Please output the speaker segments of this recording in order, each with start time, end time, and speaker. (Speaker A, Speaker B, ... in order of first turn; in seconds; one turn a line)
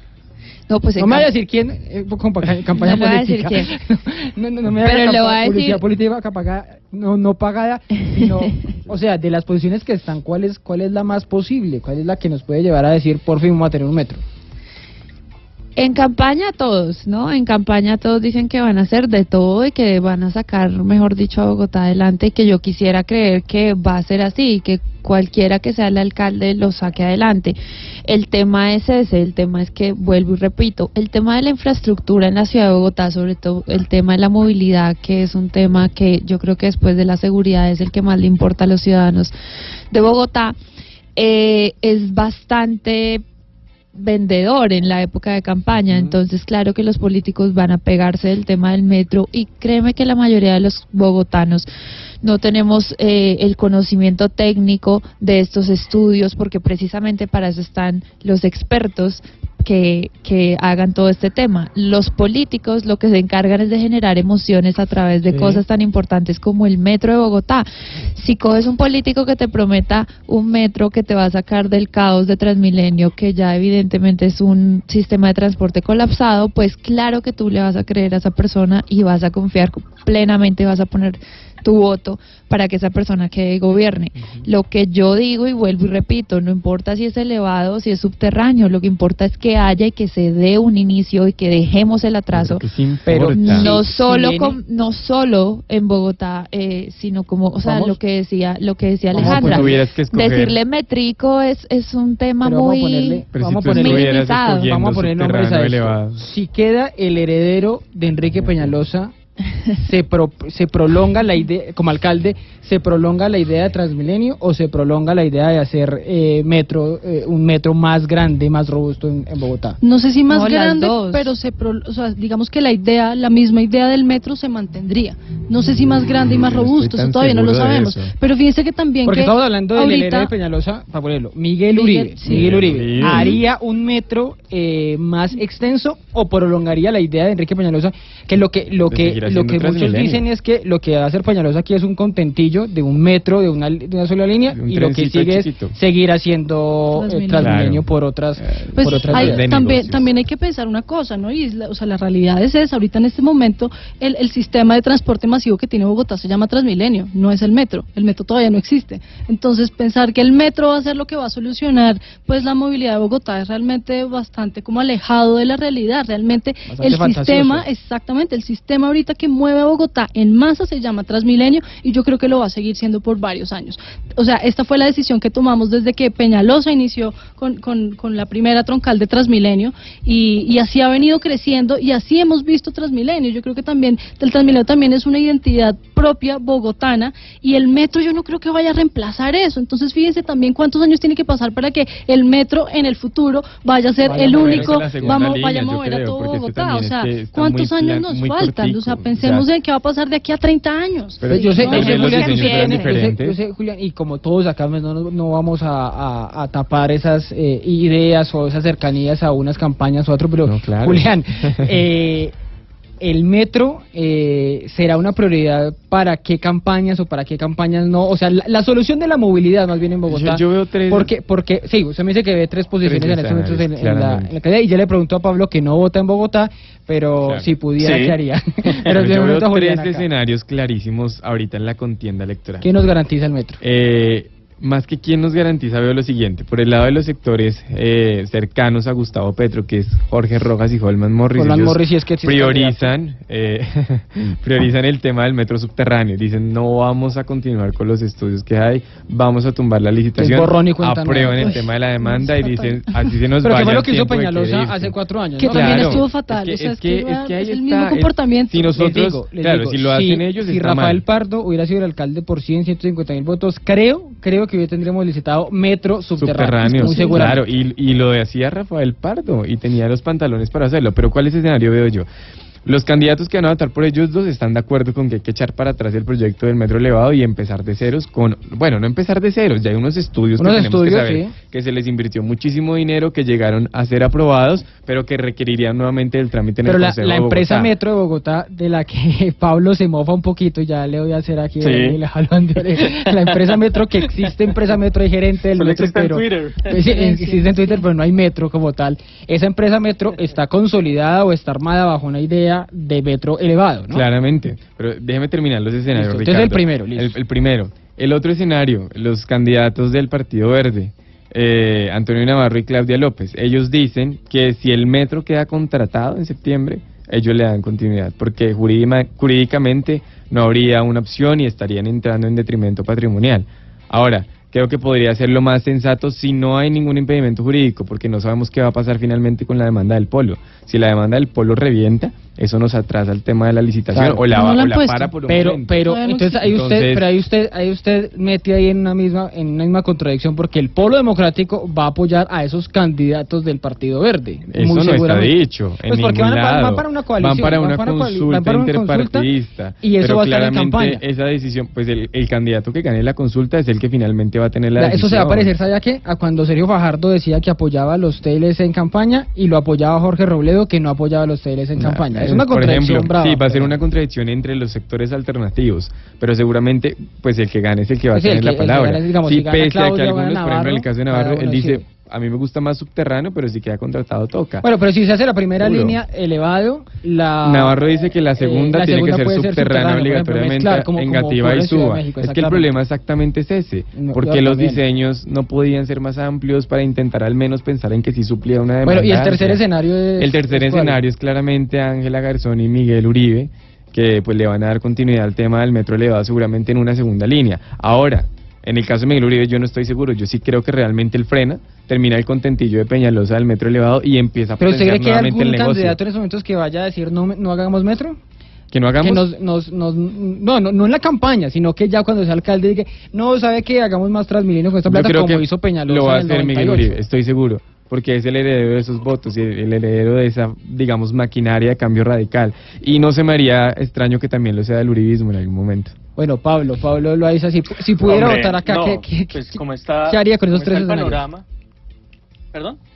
Speaker A: 0.7-1.3
Speaker B: 1.0-14.2
Speaker A: 2.8-3.8
Speaker A: 4.8-5.8
Speaker A: 15.8-39.3
Speaker A: 39.9-40.6
Speaker A: 41.1-43.2
Speaker A: 43.9-51.7
Speaker C: 45.9-46.1
Speaker A: 52.2-92.6
Speaker B: 65.3-65.6
Speaker C: 84.2-84.5
Speaker C: 92.3-93.8
Speaker B: 93.1-94.6
Speaker A: 93.3-104.7
Speaker B: 97.6-98.0
Speaker C: 99.1-100.6
Speaker B: 99.1-99.8
Speaker B: 102.4-109.1
Speaker C: 103.3-106.2
Speaker B: 109.8-119.8
Speaker D: 119.8-130.3
Speaker A: 120.3-121.3
Speaker C: 126.1-128.1
Speaker B: 129.0-149.5
Speaker D: 131.7-133.3
Speaker C: 132.2-133.4
Speaker C: 138.9-140.2
Speaker C: 144.5-145.8
Speaker D: 146.9-147.6
Speaker C: 147.3-147.9
Speaker C: 148.4-150.1
Speaker D: 148.8-202.2
Speaker B: 166.7-167.7
Speaker B: 194.0-195.3
Speaker C: 194.1-199.5
Speaker C: 201.2-203.4
Speaker B: 201.3-212.3
Speaker A: 201.6-202.9
Speaker C: 210.4-211.7
Speaker B: 213.0-230.1
Speaker C: 220.1-221.1
Speaker C: 222.8-224.3
Speaker E: 227.8-228.2
Speaker C: 228.7-232.7
Speaker B: 232.6-233.6
Speaker C: 233.6-254.9
Speaker B: 241.3-242.9
Speaker B: 250.2-251.6
Speaker D: 251.3-253.1
Speaker B: 253.4-256.1
Speaker D: 255.4-258.9
Speaker C: 255.4-261.0
Speaker B: 258.8-267.4
Speaker C: 266.2-272.1
Speaker D: 266.6-267.4
Speaker C: 272.6-287.7
Speaker B: 280.4-281.3
Speaker B: 286.6-304.0
Speaker E: 291.6-292.0
Speaker E: 293.1-293.6
Speaker E: 295.6-296.8
Speaker D: 296.8-297.8
Speaker C: 303.9-335.9
Speaker B: 305.9-307.1
Speaker B: 333.9-334.4
Speaker D: 334.3-336.5
Speaker B: 335.3-349.3
Speaker C: 336.4-337.1
Speaker C: 344.5-355.5
Speaker B: 349.8-351.0
Speaker B: 354.8-363.8
Speaker C: 361.8-374.6
Speaker B: 368.1-371.9
Speaker B: 374.6-377.8
Speaker C: 375.6-376.0
Speaker C: 377.4-389.6
Speaker B: 378.4-382.7
Speaker B: 383.9-384.8
Speaker B: 388.9-391.0
Speaker C: 390.2-406.0
Speaker B: 404.6-408.2
Speaker C: 408.7-409.3
Speaker B: 409.0-416.9
Speaker C: 414.9-425.9
Speaker B: 426.2-431.2
Speaker E: 428.0-431.4
Speaker E: 432.5-432.8